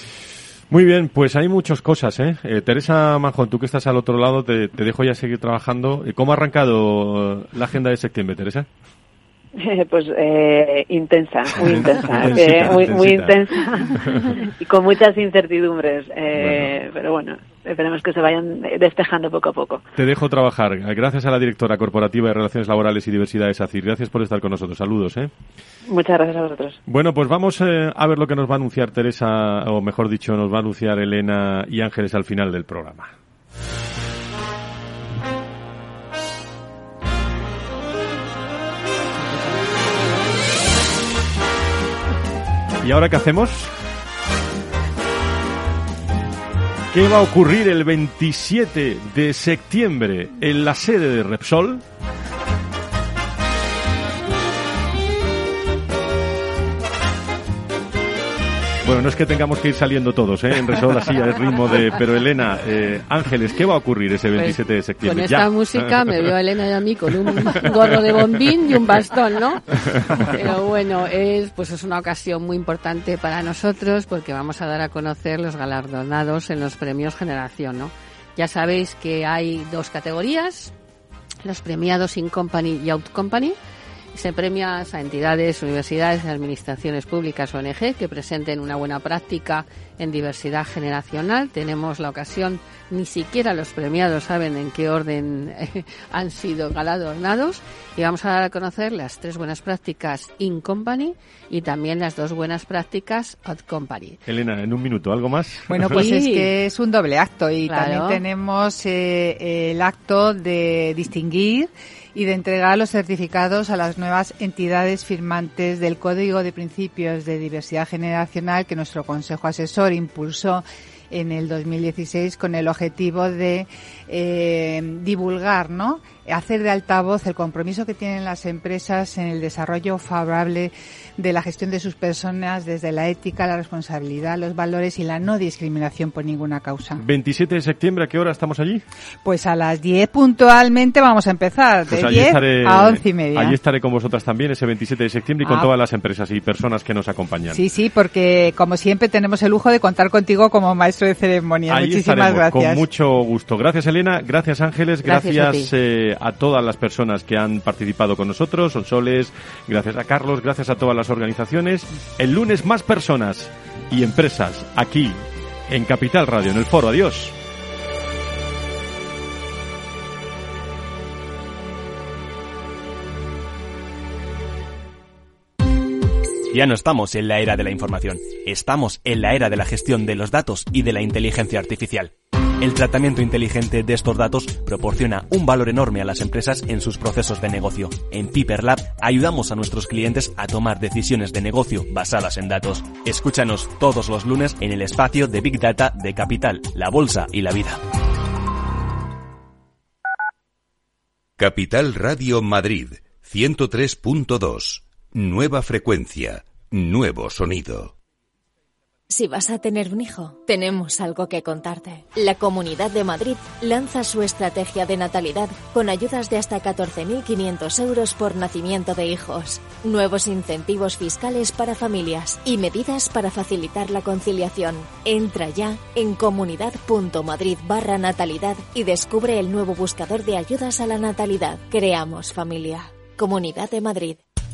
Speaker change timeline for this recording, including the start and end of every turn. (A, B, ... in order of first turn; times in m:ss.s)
0:00.7-0:08.7 A
0:09.6-0:19.8 B
0:11.6-0:13.4 A
0:16.3-0:16.8 A
0:20.0-0:25.3 A
0:25.9-0:26.8 B
0:26.9-0:33.1 A
0:42.8-0:43.7 A
0:46.9-0:51.8 A
0:58.8-1:05.9 A
1:04.4-1:20.7 C
1:07.5-1:07.7 A
1:09.9-1:10.3 A
1:21.4-1:23.6 C
1:24.1-1:44.2 C
1:44.3-1:46.1 A
1:45.7-2:17.0 D
1:45.9-1:46.5 C
1:47.7-1:48.2 C
2:17.0-2:18.8 A
2:19.2-2:23.6 D
2:21.9-2:27.6 A
2:27.5-2:32.8 D
2:31.7-2:47.4 A
2:35.0-2:35.7 C
2:56.5-3:17.8 E
3:21.4-3:27.9 F
3:29.1-3:54.2 G